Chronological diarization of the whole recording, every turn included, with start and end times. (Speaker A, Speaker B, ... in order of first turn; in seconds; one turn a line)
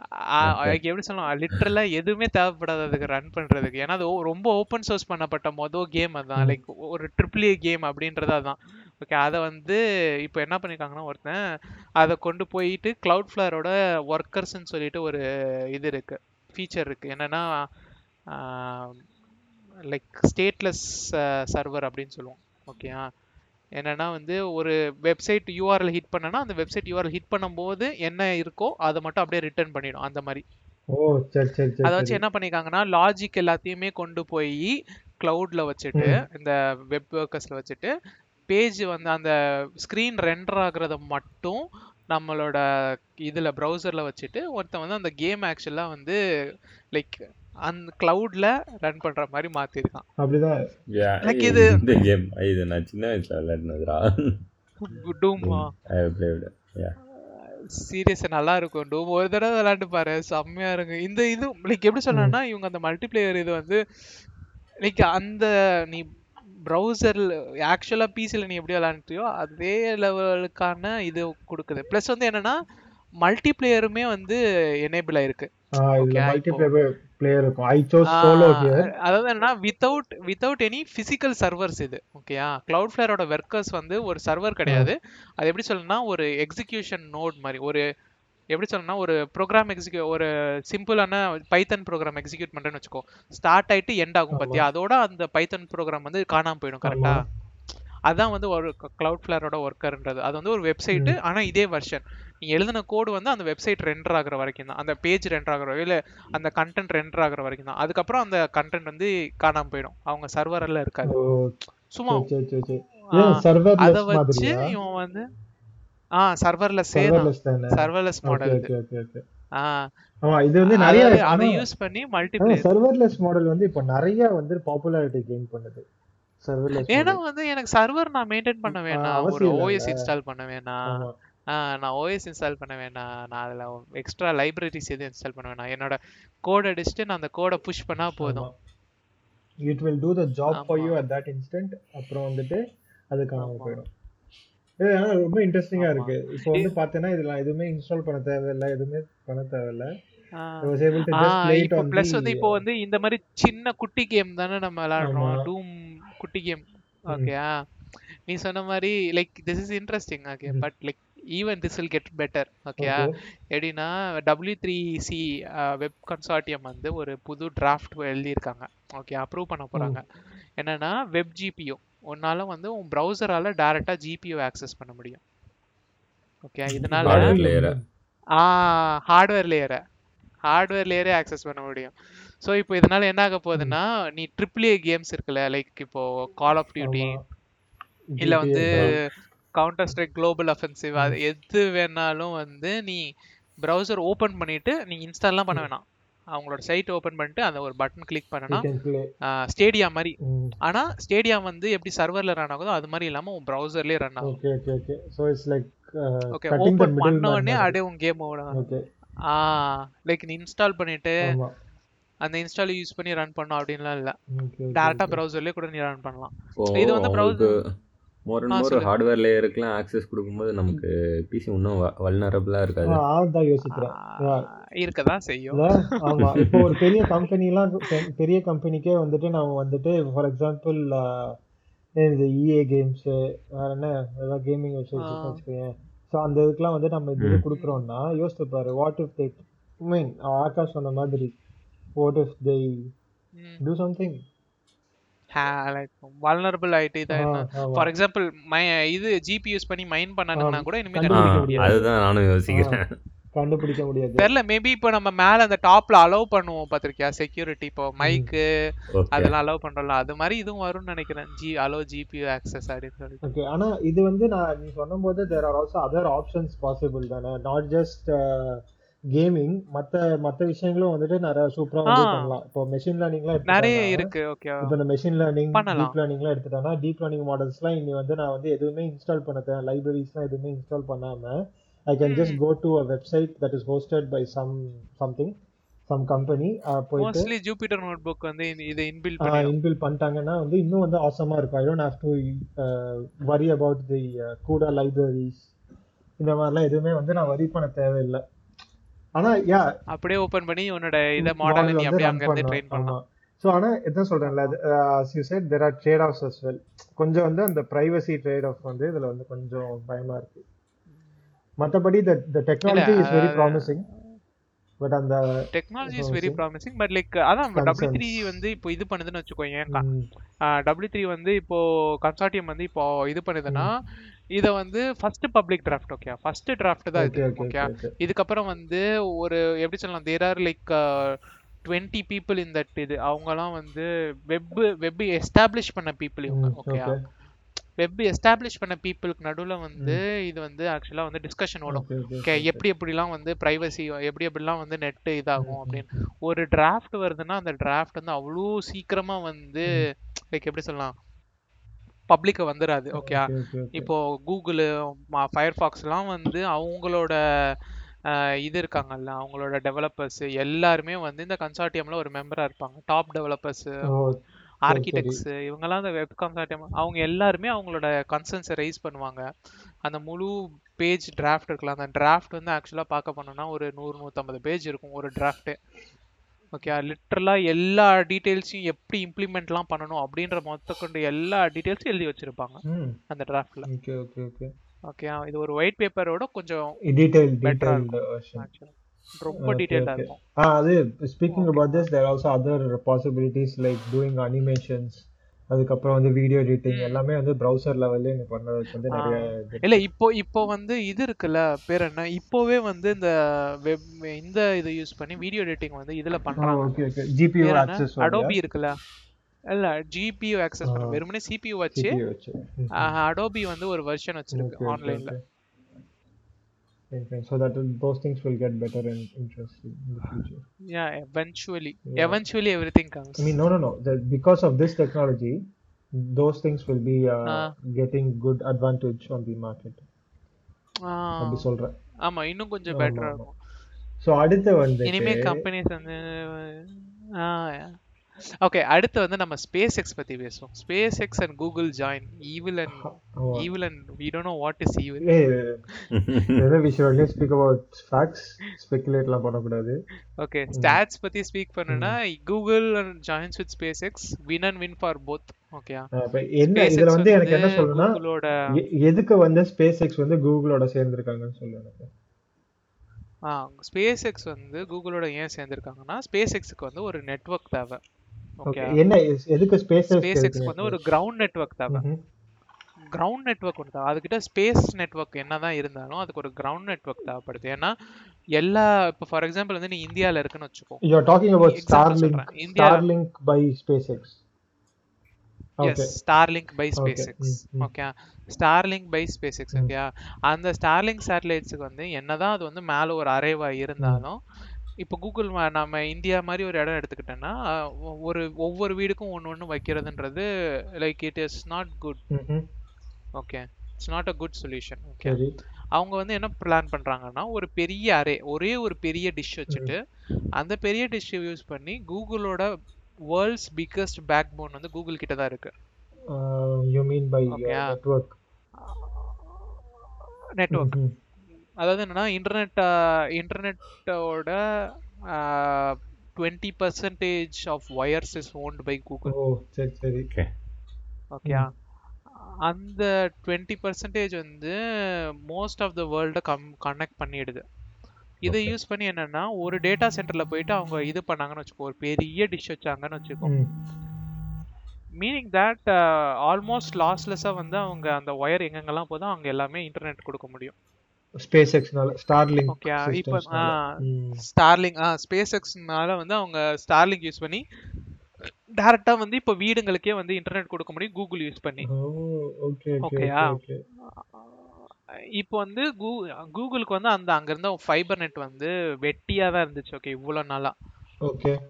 Speaker A: 0.3-11.4
Speaker B: 0.4-0.8
Speaker A: 12.0-17.6
Speaker A: 18.3-19.0
Speaker A: 19.9-23.1
Speaker A: 23.8-30.4
Speaker C: 30.9-32.2
Speaker A: 31.9-37.9
Speaker A: 38.5-42.6
Speaker A: 43.3-46.2
Speaker A: 46.9-50.0
Speaker C: 50.2-50.6
Speaker B: 50.9-54.4
Speaker A: 51.2-51.9
Speaker A: 54.8-55.7
Speaker B: 55.4-57.0
Speaker A: 57.2-63.8
Speaker C: 62.1-62.4
Speaker A: 64.8-66.1
Speaker A: 66.7-72.6
Speaker A: 73.2-76.7
Speaker C: 75.8-78.9
Speaker A: 78.1-87.8
Speaker C: 84.7-84.9
Speaker A: 88.5-97.2
Speaker C: 94.3-94.7
Speaker C: 96.9-97.2
Speaker A: 98.1-111.2
Speaker C: 111.1-111.6
Speaker A: 111.9-112.3
Speaker C: 112.1-114.7
Speaker A: 113.1-115.2
Speaker A: 116.2-118.7
Speaker C: 116.9-119.2
Speaker A: 119.6-119.9
Speaker C: 120.2-121.6
Speaker A: 120.6-122.7
Speaker C: 122.4-125.8
Speaker C: 126.4-127.2
Speaker A: 126.8-138.5
Speaker C: 128.7-130.0
Speaker C: 130.9-131.2
Speaker C: 138.2-138.5
Speaker C: 139.6-143.9
Speaker A: 140.5-141.0
Speaker A: 143.4-143.8
Speaker C: 144.8-149.9
Speaker A: 145.8-146.7
Speaker A: 150.4-157.6
Speaker C: 150.6-152.6
Speaker C: 155.0-155.5
Speaker A: 158.3-170.1
Speaker C: 162.8-163.2
Speaker A: 170.6-175.2
Speaker A: 176.4-177.3
Speaker C: 176.8-177.8
Speaker B: 177.1-177.8
Speaker A: 178.4-179.8
Speaker A: 180.4-187.2
Speaker C: 186.8-187.2
Speaker C: 188.1-188.9
Speaker A: 188.2-188.9
Speaker B: 188.7-189.0
Speaker A: 189.6-193.0
Speaker A: 193.6-198.7
Speaker C: 198.5-199.1
Speaker A: 199.4-204.4
Speaker C: 200.2-200.5
Speaker C: 204.2-207.8
Speaker A: 206.4-208.6
Speaker C: 208.5-208.8
Speaker A: 209.3-211.4
Speaker C: 211.2-211.5
Speaker A: 212.2-214.2
Speaker C: 214.3-215.2
Speaker A: 214.8-217.6
Speaker B: 216.6-217.7
Speaker B: 218.3-223.0
Speaker A: 218.5-218.9
Speaker C: 222.9-224.5
Speaker A: 223.8-225.8
Speaker C: 225.5-231.4
Speaker B: 226.2-226.7
Speaker C: 232.0-241.3
Speaker A: 235.0-235.4
Speaker B: 237.2-237.4
Speaker A: 237.5-237.8
Speaker C: 242.0-242.9
Speaker A: 243.4-243.6
Speaker C: 243.6-244.2
Speaker A: 245.3-251.8
Speaker C: 247.1-247.9
Speaker C: 250.4-251.9
Speaker B: 251.1-252.9
Speaker C: 252.5-252.8
Speaker C: 253.3-254.3
Speaker A: 254.2-258.4
Speaker C: 258.0-258.3
Speaker B: 258.9-259.3
Speaker A: 259.1-263.3
Speaker C: 263.2-274.1
Speaker A: 271.9-272.3
Speaker A: 273.5-274.8
Speaker C: 274.6-285.3
Speaker A: 275.5-275.9
Speaker A: 282.1-282.4
Speaker C: 285.9-287.3
Speaker A: 287.0-289.5
Speaker C: 289.2-295.5
Speaker C: 296.2-298.2
Speaker C: 299.2-299.7
Speaker A: 299.9-303.0
Speaker C: 301.2-310.4
Speaker A: 304.2-304.6
Speaker C: 311.6-313.9
Speaker A: 312.7-313.7
Speaker C: 314.8-316.4
Speaker A: 315.5-319.9
Speaker C: 317.6-318.4
Speaker C: 319.7-320.1
Speaker A: 320.6-323.7
Speaker A: 324.4-337.0
Speaker C: 327.0-327.9
Speaker C: 336.3-337.0
Speaker A: 337.8-350.9
Speaker C: 341.7-342.6
Speaker C: 345.4-345.9
Speaker A: 352.1-357.6
Speaker C: 353.0-353.9
Speaker A: 358.1-363.9
Speaker C: 363.9-365.2
Speaker A: 364.7-369.2
Speaker A: 369.9-375.6
Speaker A: 376.5-383.7
Speaker C: 382.6-383.0
Speaker C: 383.7-384.5
Speaker A: 384.9-386.8
Speaker C: 386.9-388.4
Speaker A: 387.4-390.2
Speaker C: 389.4-399.8
Speaker A: 391.3-391.9
Speaker A: 396.7-397.0
Speaker A: 398.9-406.8
Speaker C: 406.4-408.4
Speaker A: 407.4-408.8
Speaker A: 409.5-412.0
Speaker C: 410.7-411.0
Speaker C: 411.8-412.9
Speaker A: 412.8-415.1
Speaker C: 414.3-415.2
Speaker C: 416.9-420.4
Speaker A: 420.7-423.4
Speaker C: 421.9-422.2
Speaker C: 423.2-429.8
Speaker A: 427.3-427.5
Speaker A: 430.9-431.5
Speaker C: 431.2-431.7
Speaker A: 432.1-433.3
Speaker C: 432.7-433.3
Speaker C: 434.0-435.4
Speaker A: 434.9-437.8
Speaker A: 438.4-445.1
Speaker C: 442.8-443.5
Speaker C: 445.0-445.6
Speaker B: 445.9-446.4
Speaker C: 446.4-449.8
Speaker A: 450.2-455.9
Speaker C: 450.5-450.8
Speaker C: 451.7-452.0
Speaker C: 455.9-458.0
Speaker A: 456.6-458.3
Speaker C: 458.5-461.9
Speaker A: 463.3-467.8
Speaker A: 468.4-468.8
Speaker C: 468.5-470.8
Speaker A: 469.9-471.8
Speaker C: 471.7-472.0
Speaker A: 472.8-477.7
Speaker A: 478.4-480.8
Speaker C: 480.8-484.2
Speaker A: 481.4-482.9
Speaker C: 485.6-485.9
Speaker A: 485.6-494.2
Speaker C: 486.8-487.7
Speaker A: 494.8-500.3
Speaker A: 500.8-502.0
Speaker C: 502.1-502.4
Speaker A: 503.2-505.2
Speaker C: 505.0-505.4
Speaker A: 505.8-509.8
Speaker A: 510.4-512.5
Speaker A: 513.1-515.5
Speaker C: 516.1-518.2
Speaker A: 517.3-517.8
Speaker A: 518.6-519.6
Speaker A: 520.4-520.8
Speaker C: 520.5-520.9
Speaker A: 521.6-524.4
Speaker A: 525.1-529.2
Speaker C: 529.1-530.1
Speaker A: 531.1-531.5
Speaker A: 532.5-537.4
Speaker B: 538.2-538.5
Speaker A: 538.3-543.3
Speaker C: 543.2-543.5
Speaker A: 545.0-550.5
Speaker C: 551.2-554.2
Speaker A: 552.5-557.4
Speaker A: 558.5-561.7
Speaker C: 561.6-563.6
Speaker A: 562.8-563.4
Speaker A: 564.1-564.6
Speaker A: 565.2-570.5
Speaker C: 571.0-571.4